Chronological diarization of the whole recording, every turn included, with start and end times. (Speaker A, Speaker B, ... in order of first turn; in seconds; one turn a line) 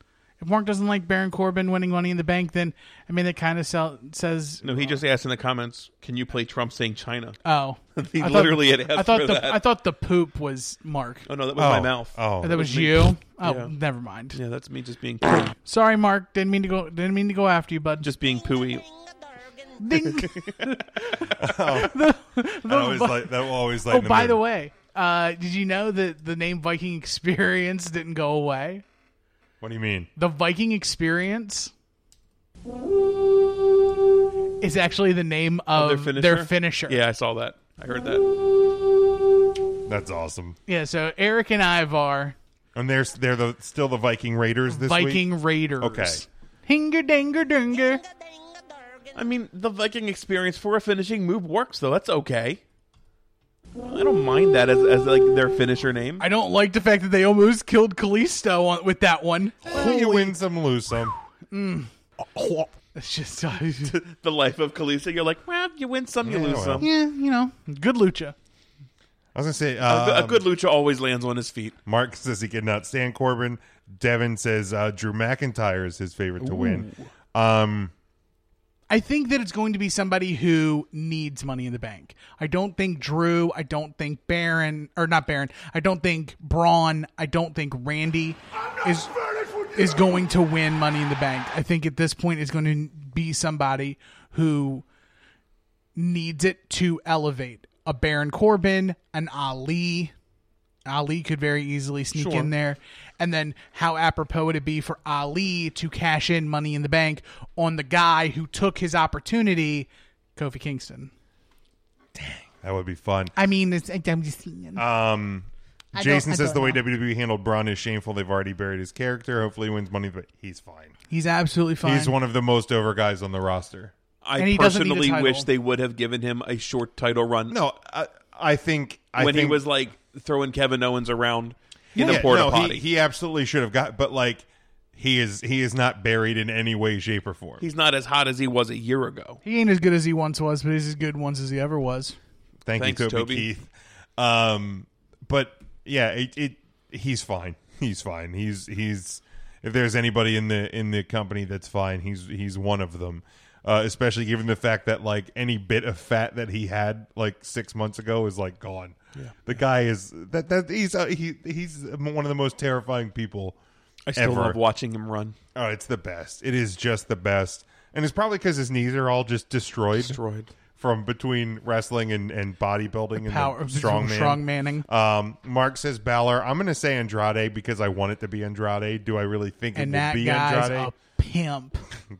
Speaker A: 0.4-4.9
Speaker B: 4.6-7.4
Speaker A: 7.4-11.3
Speaker B: 8.0-9.6
Speaker B: 11.2-13.7
Speaker C: 11.6-12.7
Speaker A: 12.4-14.4
Speaker B: 14.3-15.6
Speaker A: 15.6-18.1
Speaker B: 18.0-18.9
Speaker A: 19.8-28.8
Speaker B: 20.0-20.8
Speaker C: 21.4-22.0
Speaker C: 22.6-24.4
Speaker C: 29.6-30.1
Speaker A: 30.1-31.7
Speaker A: 34.6-37.0
Speaker B: 35.7-38.3
Speaker C: 39.9-40.6
Speaker A: 40.7-42.4
Speaker C: 42.7-45.3
Speaker A: 44.7-48.0
Speaker C: 45.8-46.2
Speaker B: 49.1-52.6
Speaker B: 53.8-56.2
Speaker A: 56.2-60.4
Speaker C: 59.6-61.1
Speaker A: 61.5-64.0
Speaker B: 63.8-66.8
Speaker C: 66.2-66.8
Speaker A: 66.8-68.3
Speaker C: 69.3-70.5
Speaker B: 69.8-71.8
Speaker C: 71.8-77.9
Speaker B: 76.4-77.1
Speaker A: 78.9-89.1
Speaker A: 89.7-94.8
Speaker A: 96.0-100.1
Speaker A: 100.8-111.1
Speaker B: 102.1-102.5
Speaker C: 112.1-113.3
Speaker A: 113.3-114.8
Speaker C: 114.8-120.9
Speaker A: 116.0-116.8
Speaker A: 121.1-122.1
Speaker C: 121.8-123.9
Speaker B: 124.2-127.6
Speaker A: 124.4-125.5
Speaker C: 127.5-129.6
Speaker B: 129.2-132.8
Speaker A: 131.9-132.3
Speaker C: 132.0-137.6
Speaker B: 137.6-139.4
Speaker A: 139.4-142.2
Speaker C: 142.7-163.6
Speaker B: 142.8-143.5
Speaker B: 164.1-165.3
Speaker C: 164.1-164.6
Speaker C: 165.5-170.2
Speaker B: 170.0-170.5
Speaker C: 170.7-180.9
Speaker A: 173.2-174.9
Speaker A: 179.7-181.8